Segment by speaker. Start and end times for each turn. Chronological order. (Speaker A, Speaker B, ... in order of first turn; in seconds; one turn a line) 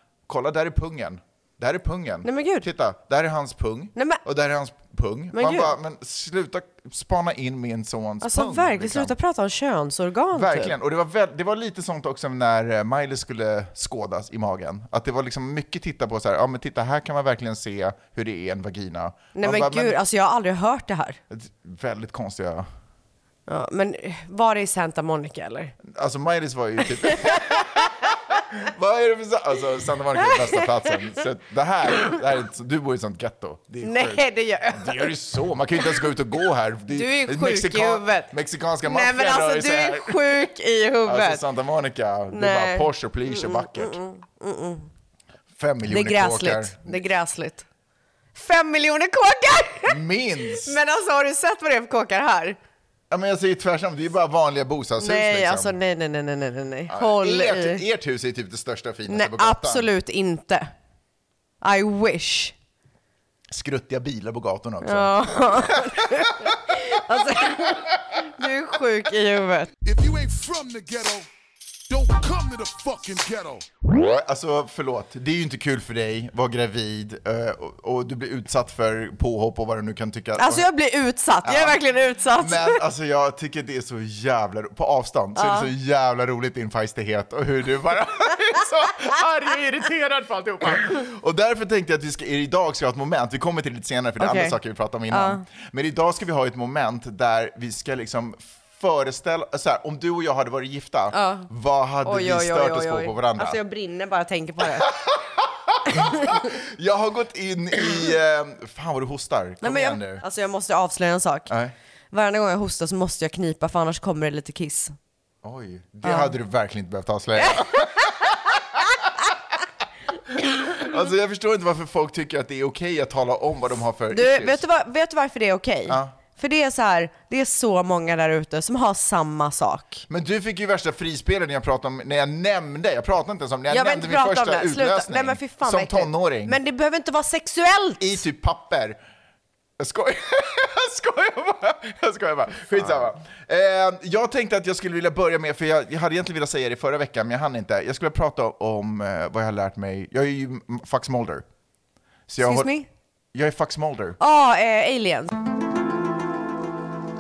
Speaker A: 0.3-9.1
Speaker B: 2.2-2.7
Speaker B: 4.0-4.2
Speaker B: 5.3-5.8
Speaker B: 8.2-10.7
Speaker A: 10.3-20.0
Speaker B: 19.4-21.2
Speaker A: 21.3-22.7
Speaker B: 23.5-25.8
Speaker A: 25.8-40.5
Speaker B: 27.3-27.7
Speaker B: 30.2-30.9
Speaker B: 33.8-35.1
Speaker B: 36.9-41.4
Speaker A: 41.0-44.0
Speaker B: 42.3-44.9
Speaker A: 45.5-47.1
Speaker B: 45.9-47.6
Speaker B: 48.4-50.0
Speaker A: 49.9-50.8
Speaker B: 50.5-52.6
Speaker A: 53.1-55.8
Speaker B: 55.0-57.8
Speaker A: 56.9-59.9
Speaker B: 59.1-60.7
Speaker B: 61.6-62.5
Speaker A: 63.5-66.5
Speaker B: 64.8-69.7
Speaker C: 69.8-71.3
Speaker C: 71.9-73.7
Speaker A: 73.9-80.7
Speaker B: 80.4-82.8
Speaker A: 81.4-81.8
Speaker A: 82.3-103.6
Speaker B: 85.4-85.7
Speaker B: 94.2-94.6
Speaker B: 95.1-95.4
Speaker B: 101.1-101.5
Speaker B: 102.0-104.9
Speaker A: 104.7-110.2
Speaker B: 105.9-106.4
Speaker B: 109.6-111.5
Speaker A: 111.5-111.8
Speaker B: 112.1-115.0
Speaker A: 115.4-118.6
Speaker B: 116.0-116.3
Speaker B: 117.4-118.1
Speaker A: 120.6-124.6
Speaker B: 124.1-130.1
Speaker A: 125.9-126.2
Speaker A: 130.1-136.6
Speaker B: 133.7-138.2
Speaker A: 138.0-139.0
Speaker A: 139.8-151.4
Speaker A: 152.3-152.7
Speaker B: 152.4-152.9
Speaker A: 153.3-154.2
Speaker B: 154.2-155.3